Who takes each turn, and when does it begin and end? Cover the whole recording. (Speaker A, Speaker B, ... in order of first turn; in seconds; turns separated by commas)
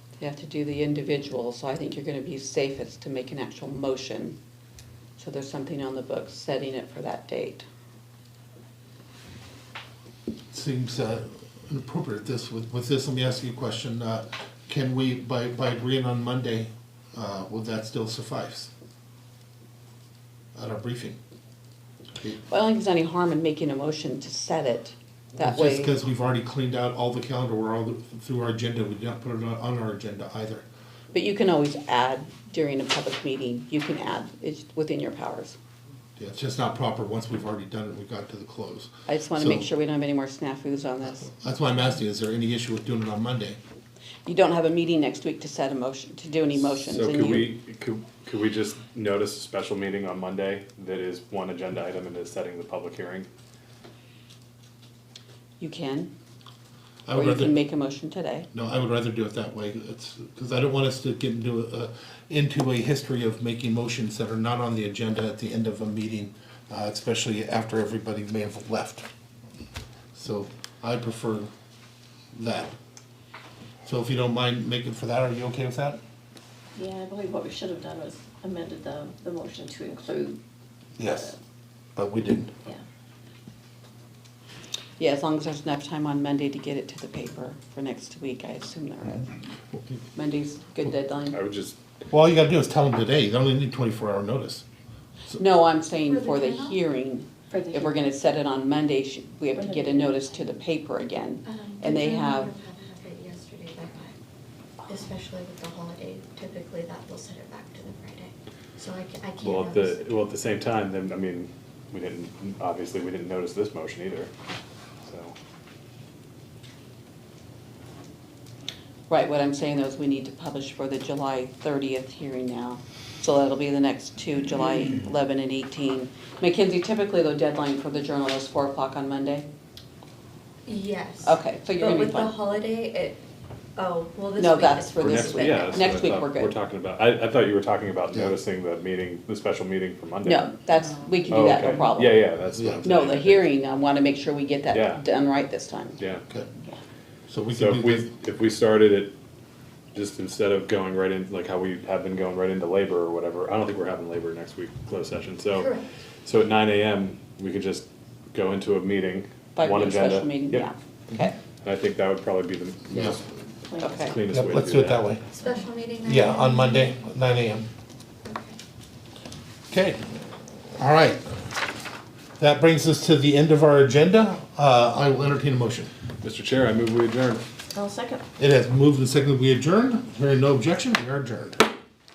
Speaker A: 0.2-4.4, Speaker A: 5.2-7.6, Speaker B: 10.5-18.7, Speaker B: 20.5-21.2, Speaker A: 22.5-25.9, Speaker B: 25.4-30.6, Speaker A: 31.1-35.6, Speaker B: 36.2-39.7, Speaker A: 39.1-41.3, Speaker B: 41.3-43.6, Speaker A: 44.2-47.5, Speaker C: 46.5-53.3, Speaker A: 55.6-56.1, Speaker B: 57.0-57.6, Speaker A: 57.1-58.5, Speaker B: 58.5-69.1, Speaker B: 70.1-71.5, Speaker B: 72.3-72.7, Speaker B: 73.8-76.0, Speaker D: 76.7-80.4, Speaker B: 81.0-81.3, Speaker D: 81.0-81.3, Speaker B: 82.0-82.5, Speaker A: 85.0-89.3, Speaker A: 90.1-91.4, Speaker C: 91.3-91.8, Speaker B: 92.1-94.6, Speaker A: 95.3-102.5, Speaker E: 96.0-96.8, Speaker D: 97.5-98.1, Speaker D: 99.5-100.4, Speaker E: 101.4-104.2, Speaker E: 104.8-110.2, Speaker C: 109.4-114.3, Speaker C: 115.0-115.3, Speaker A: 119.1-129.5, Speaker E: 130.6-133.2, Speaker A: 131.2-132.4, Speaker E: 133.8-136.0, Speaker A: 134.4-136.5, Speaker C: 135.0-140.5, Speaker A: 140.2-142.3, Speaker E: 140.8-141.3, Speaker C: 141.3-143.4, Speaker B: 142.6-142.9, Speaker A: 142.8-146.0, Speaker C: 144.7-145.0, Speaker C: 146.0-146.2, Speaker B: 147.3-148.1, Speaker C: 147.5-149.1, Speaker C: 149.9-155.7, Speaker E: 155.5-155.9, Speaker C: 156.2-160.7, Speaker A: 159.6-161.3, Speaker C: 161.6-163.3, Speaker D: 163.7-164.1, Speaker A: 163.8-164.2, Speaker C: 163.9-165.0, Speaker B: 164.3-165.2, Speaker E: 165.3-166.9, Speaker B: 166.0-167.7, Speaker E: 168.2-168.6, Speaker B: 169.7-170.0, Speaker B: 170.7-171.2, Speaker B: 172.4-175.9, Speaker C: 176.2-177.4, Speaker D: 177.7-178.2, Speaker B: 178.4-181.7